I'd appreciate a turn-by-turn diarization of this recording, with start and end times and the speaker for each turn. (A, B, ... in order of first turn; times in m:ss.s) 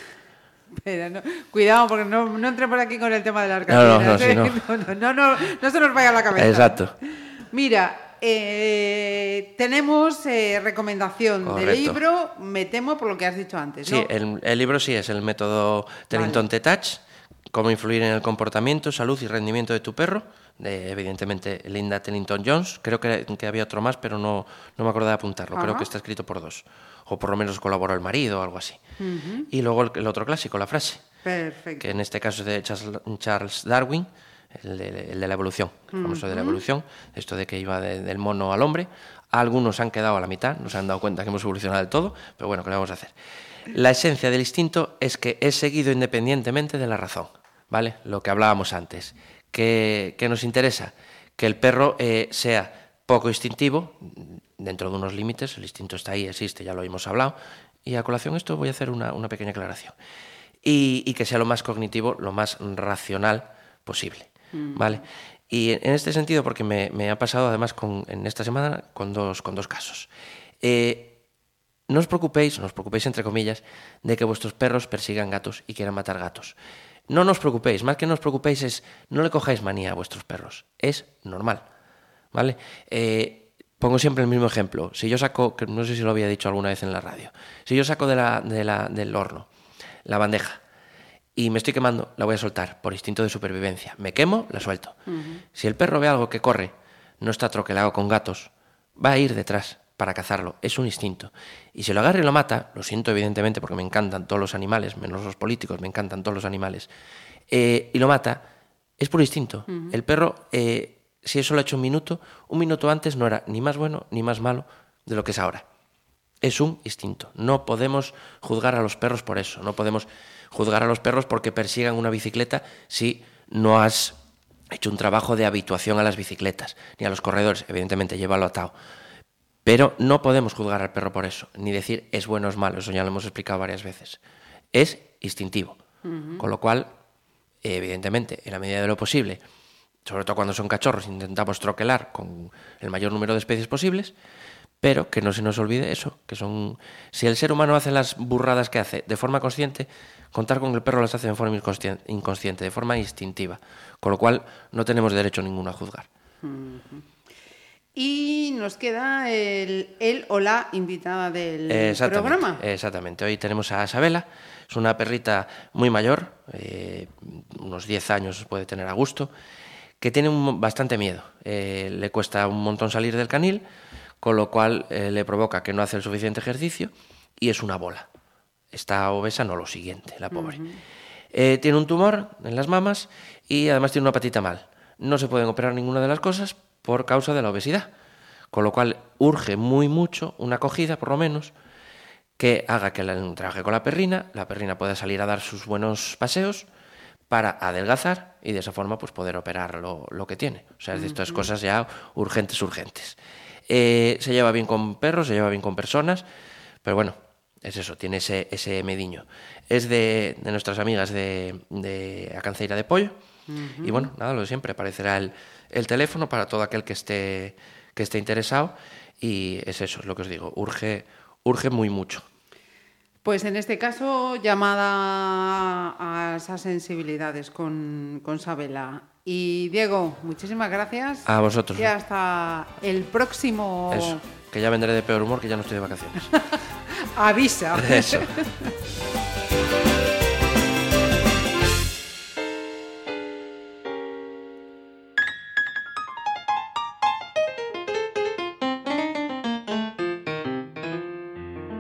0:00.8-0:14.1 A
0:03.7-0:04.6 B
0:06.3-0:06.9 B
0:11.4-0:12.0 B
0:13.8-0:28.8 B
0:16.1-0:16.5 A
0:25.5-0:25.9 A
0:29.0-0:29.5 A
0:29.5-0:31.0 B
0:31.2-0:31.9 A
0:31.8-0:43.1 B
0:35.9-0:36.6 A
0:43.7-1:00.0 B
1:00.6-1:10.1 B
1:04.5-1:05.0 A
1:10.6-1:11.2 B
1:11.9-1:16.6 B
1:17.1-1:21.6 B
1:22.3-1:29.5 B
1:30.1-1:30.6 B
1:31.4-1:35.0 B
1:35.1-1:35.4 A
1:35.6-1:46.9 B
1:47.5-1:48.4 B
1:49.0-1:55.6 B
1:49.7-1:50.0 A
1:56.4-2:04.2 B
2:04.7-2:08.7 B
2:09.6-2:14.2 B
2:14.7-2:15.8 B
2:16.0-2:16.5 A
2:16.4-2:16.9 B
2:17.6-2:19.4 B
2:20.1-2:24.1 B
2:24.8-2:36.1 B
2:36.4-2:37.0 A
2:38.0-2:42.6 A
2:41.7-2:49.3 B
2:50.0-2:53.6 B
2:54.2-2:58.1 B
2:58.7-3:00.6 B
3:00.3-3:00.8 A
3:01.3-3:07.9 B
3:08.5-3:11.5 B
3:12.4-3:16.7 B
3:17.3-3:26.2 B
3:20.9-3:21.5 A
3:26.8-3:33.2 B
3:33.5-3:34.1 A
3:33.8-3:42.2 B
3:43.2-3:54.2 A
3:51.3-3:51.9 B
3:53.9-3:56.3 B
3:56.3-3:58.7 A
3:57.7-3:58.3 B